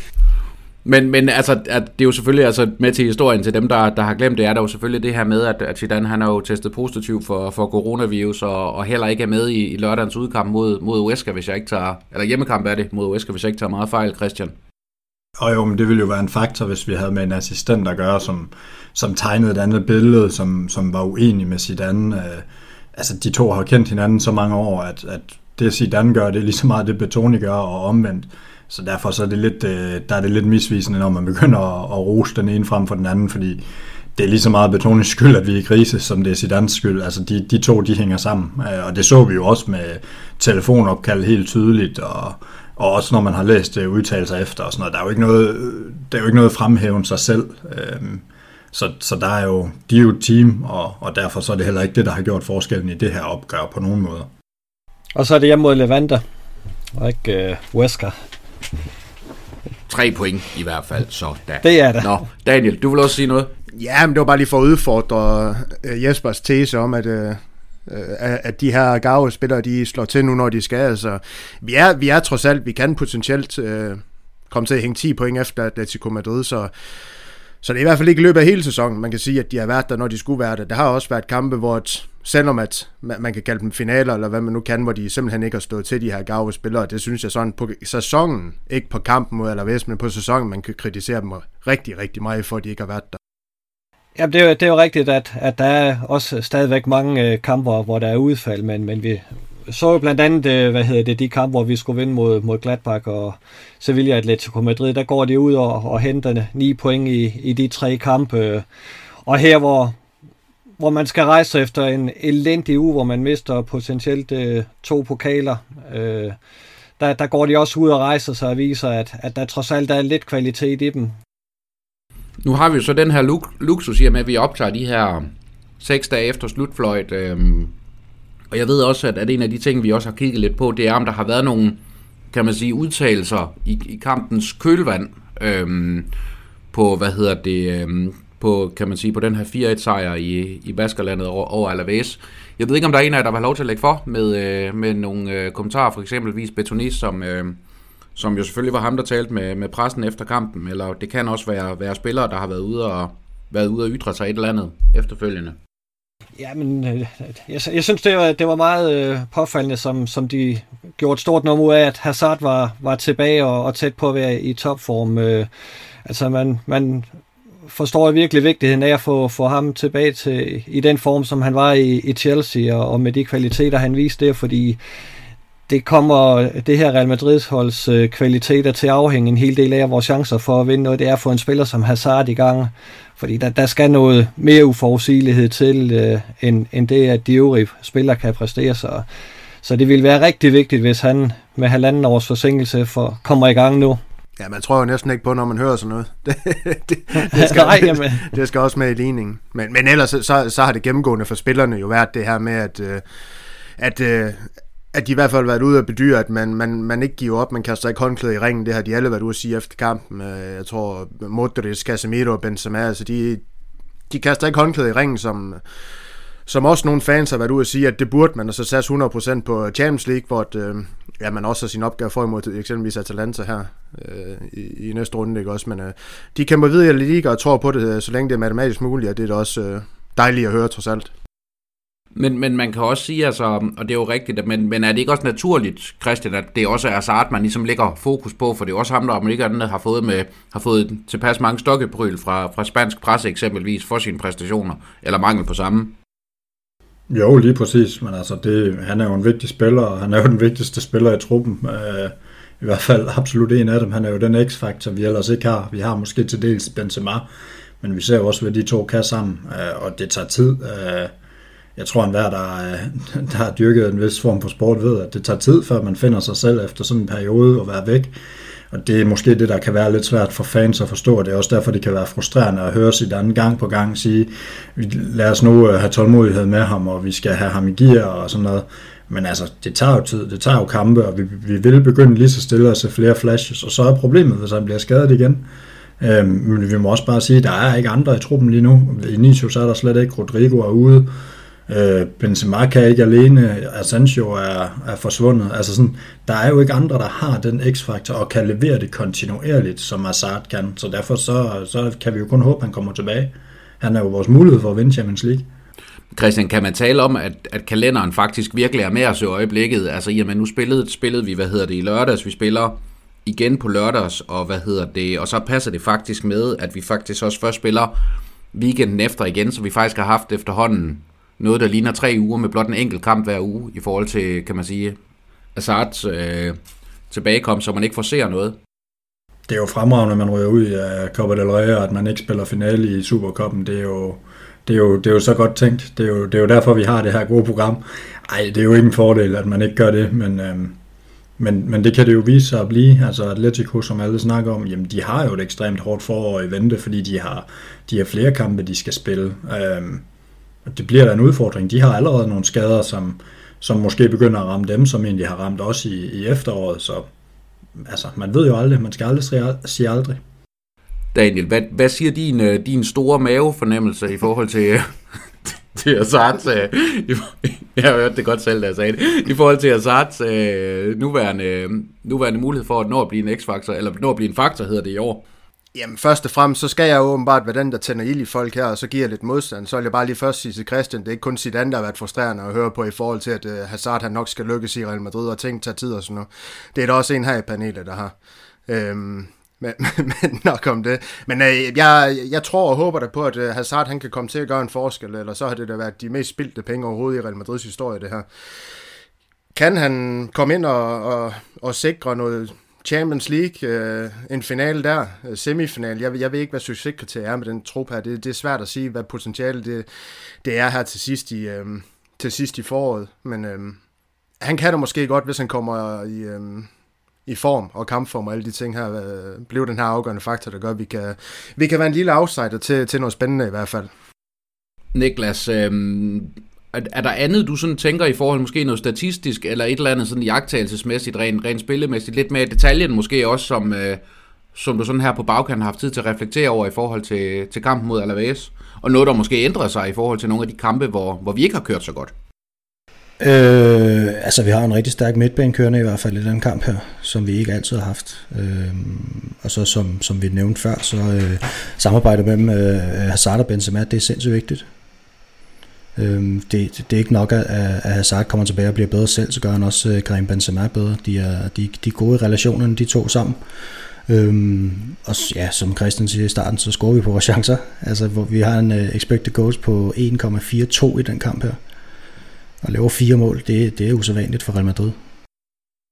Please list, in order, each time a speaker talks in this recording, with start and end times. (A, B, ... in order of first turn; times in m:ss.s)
0:00.8-0:14.5 A
0:15.4-0:33.6 B
0:34.1-0:54.3 B
0:55.1-0:56.2 C
0:57.0-0:58.2 C
0:59.9-1:03.5 A
1:01.6-1:02.2 C
1:03.7-1:16.7 D
1:17.6-1:33.2 D
1:34.2-1:48.6 C
1:49.2-1:50.0 C
1:50.8-1:56.4 C
1:57.0-2:01.2 C
2:02.4-2:07.7 A
2:08.5-2:11.8 A
2:12.3-2:16.1 A
2:16.7-2:27.6 A
2:28.2-2:35.6 A
2:36.4-2:45.5 C
2:46.0-2:47.2 C
2:47.7-2:54.8 C
2:55.7-3:09.0 C
3:09.6-3:14.0 C
3:14.4-3:23.0 D
3:17.3-3:18.2 C
3:23.8-3:33.4 D
3:34.1-3:35.6 D
3:36.4-3:51.1 D
3:52.1-4:05.9 A
4:07.1-4:17.2 B
4:17.8-4:21.1 B
4:21.8-4:28.1 B
4:28.7-4:45.4 B
4:46.0-4:51.1 B
4:51.7-5:05.5 B
5:06.1-5:17.9 A
5:18.5-5:25.0 A
5:25.5-5:26.6 A
5:27.1-5:28.6 A
5:29.5-5:40.8 B
5:41.4-5:50.0 B
5:50.6-5:57.1 B
5:57.8-6:00.2 B
6:01.1-6:15.2 A
6:15.7-6:28.1 D
6:28.7-6:38.3 D
6:39.5-6:49.9 D
6:50.4-6:53.8 D
6:54.4-6:56.7 D
6:57.2-7:03.9 D
7:04.9-7:14.0 A
7:14.5-7:22.1 A
7:23.2-7:34.7 E
7:36.0-7:43.4 E
7:44.1-7:51.6 E
7:52.6-7:55.0 E